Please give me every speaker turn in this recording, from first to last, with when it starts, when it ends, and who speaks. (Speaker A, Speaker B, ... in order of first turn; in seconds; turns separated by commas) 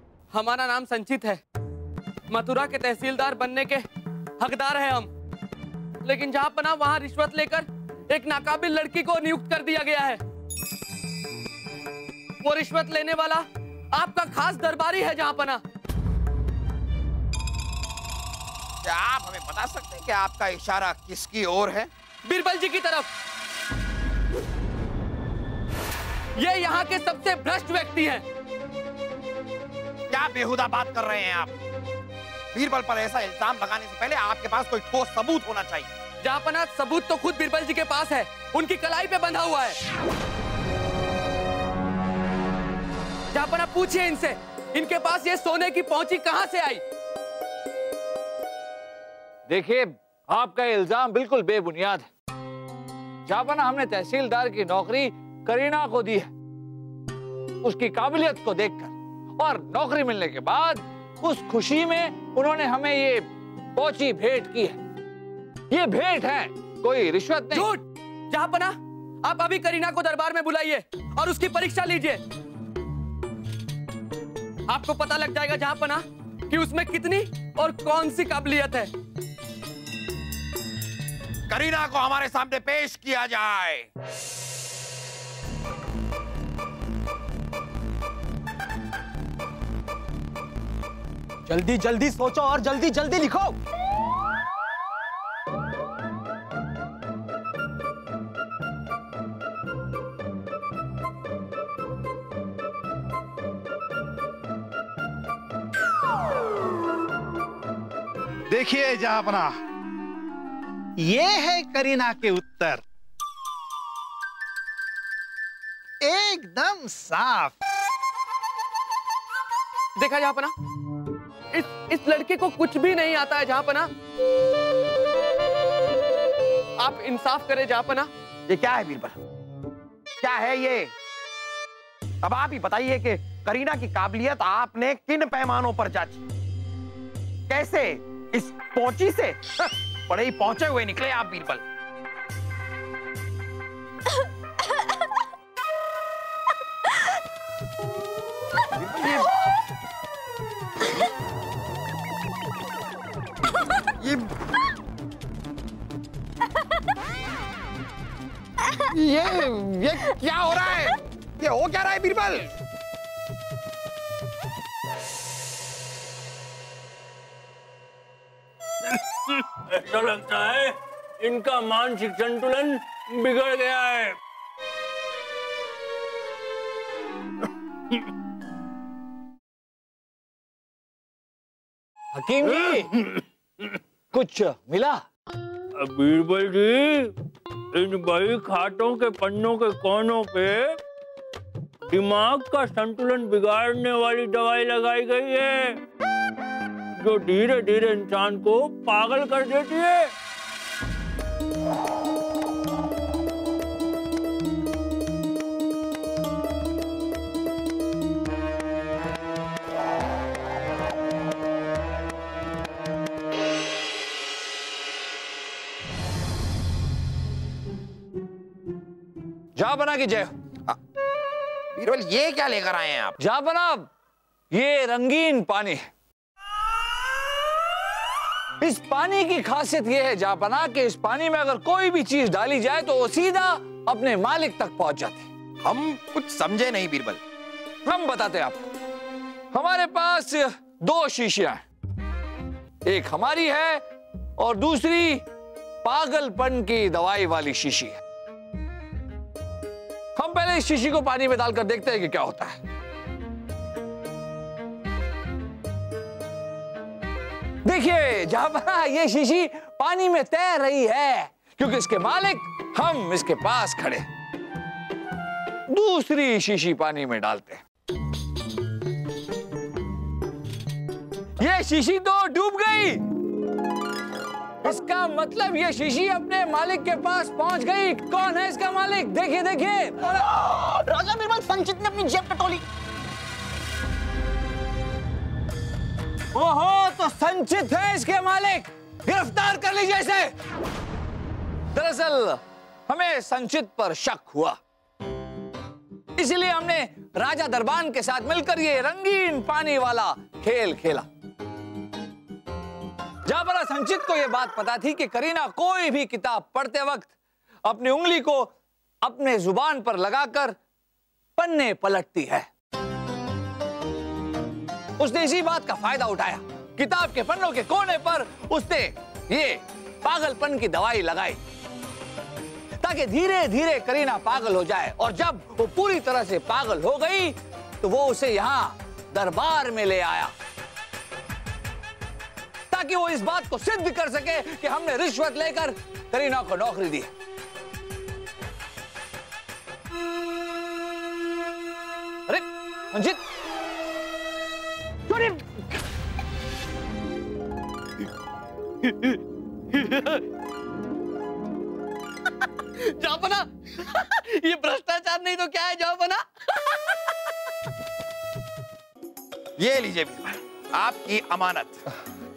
Speaker A: 0.3-1.4, Speaker A: 2.3-3.9, Speaker A: 4.4-5.1, Speaker A: 6.0-10.2, Speaker A: 12.4-15.6, Speaker B: 18.8-21.9, Speaker A: 22.2-23.1, Speaker A: 26.4-28.2, Speaker B: 30.1-31.5, Speaker B: 32.5-35.9, Speaker A: 36.2-39.8, Speaker A: 43.3-46.8, Speaker C: 49.5-52.1, Speaker C: 53.3-56.3, Speaker C: 57.6-64.8, Speaker C: 65.7-67.7, Speaker A: 67.5-68.7, Speaker A: 69.2-72.2, Speaker A: 74.7-78.9, Speaker B: 81.5-83.9, Speaker D: 91.5-93.6, Speaker E: 108.5-109.6, Speaker E: 111.0-112.8, Speaker E: 116.0-117.5, Speaker A: 120.0-120.5, Speaker A: 121.5-123.9, Speaker A: 126.8-128.1, Speaker B: 128.5-129.1, Speaker B: 130.2-130.9, Speaker B: 132.2-136.2, Speaker B: 137.5-141.6, Speaker B: 148.7-149.4, Speaker B: 154.0-154.3, Speaker B: 158.7-162.5, Speaker F: 168.8-174.2, Speaker C: 182.1-183.0, Speaker C: 184.1-185.0, Speaker F: 185.8-187.1, Speaker F: 187.7-190.8, Speaker F: 191.9-195.8, Speaker F: 196.9-200.1, Speaker C: 219.6-220.3, Speaker B: 221.7-223.2, Speaker C: 223.2-223.9, Speaker C: 224.5-225.8, Speaker C: 228.6-235.3, Speaker B: 235.6-237.2, Speaker C: 237.8-238.7, Speaker C: 239.5-241.6, Speaker C: 242.8-243.8, Speaker C: 244.4-245.2, Speaker C: 245.8-248.0, Speaker C: 250.2-252.6, Speaker C: 257.6-264.0, Speaker C: 265.7-267.6, Speaker C: 271.4-273.0, Speaker C: 274.6-280.2, Speaker D: 280.3-282.6, Speaker C: 286.3-290.3, Speaker C: 291.7-294.6, Speaker C: 296.2-301.1, Speaker C: 303.2-307.1, Speaker C: 307.6-308.5, Speaker C: 309.0-310.6, Speaker C: 311.4-312.5, Speaker C: 315.0-321.4, Speaker C: 322.8-330.3, Speaker C: 332.7-337.1, Speaker C: 342.3-343.2, Speaker C: 345.1-345.4, Speaker A: 348.8-349.2, Speaker A: 349.7-350.2, Speaker A: 352.8-357.1, Speaker B: 359.6-361.8